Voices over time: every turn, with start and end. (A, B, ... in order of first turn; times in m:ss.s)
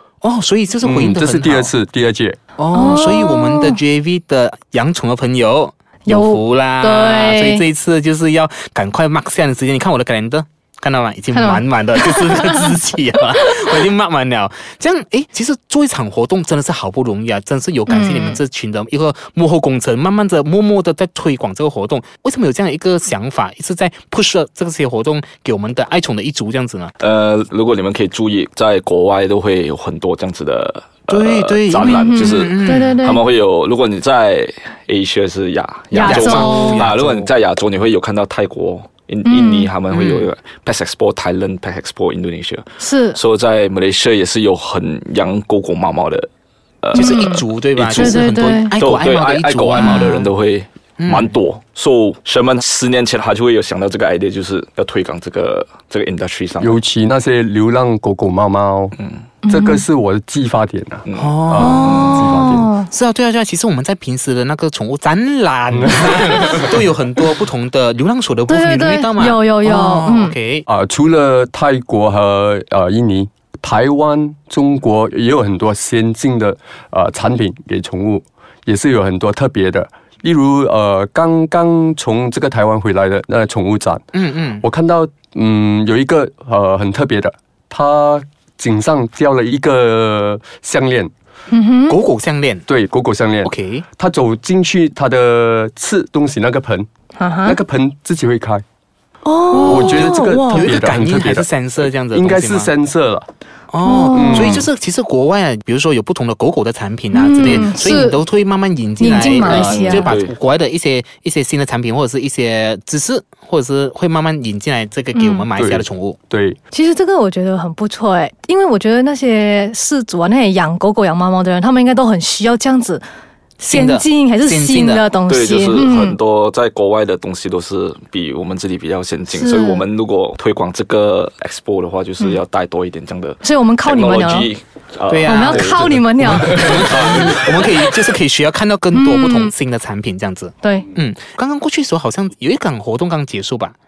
0:00.2-0:01.7 A
0:00.8-0:02.4 B
0:02.6-0:26.9 A
0:02.7-0:03.8 C
0:06.1-0:07.6 C
0:11.3-0:12.7 C
0:17.9-0:18.4 C
0:27.0-0:46.3 D
0:31.1-0:33.0 A
0:31.9-0:33.2 C
0:35.9-0:36.9 C
0:36.0-0:37.3 A
0:39.3-0:39.7 C
0:39.9-0:40.3 A
0:42.8-0:43.2 C
0:46.8-0:56.8 D
0:46.9-0:50.3 A
0:47.0-0:48.7 C
0:51.0-0:51.3 A
0:56.6-0:59.0 B
0:59.4-0:59.8 C
0:59.5-1:02.7 B
1:01.1-1:02.3 D
1:01.2-1:10.7 A
1:01.6-1:02.9 C
1:05.7-1:06.7 B
1:08.5-1:10.4 C
1:10.7-1:24.0 B
1:24.1-1:24.6 A
1:24.6-1:31.1 B
1:31.5-1:32.0 C
1:31.9-1:32.6 A
1:32.7-1:36.9 B
1:33.4-1:33.8 A
1:37.2-1:37.6 C
1:37.4-1:38.6 B
1:39.2-1:40.7 C
1:39.5-1:42.7 A
1:39.6-1:41.5 B
1:42.0-1:43.3 B
1:43.7-1:56.2 A
1:43.8-1:44.6 C
1:44.1-1:44.7 B
1:47.1-1:48.2 C
1:49.0-1:50.2 C
1:49.5-1:50.3 D
1:55.2-1:55.5 C
1:55.6-1:56.6 B
1:56.7-2:03.0 C
2:03.6-2:06.2 C
2:03.7-2:05.1 A
2:05.3-2:17.4 D
2:09.3-2:09.8 C
2:13.4-2:14.5 C
2:15.1-2:23.8 A
2:15.2-2:17.0 C
2:18.9-2:19.5 C
2:20.6-2:20.9 C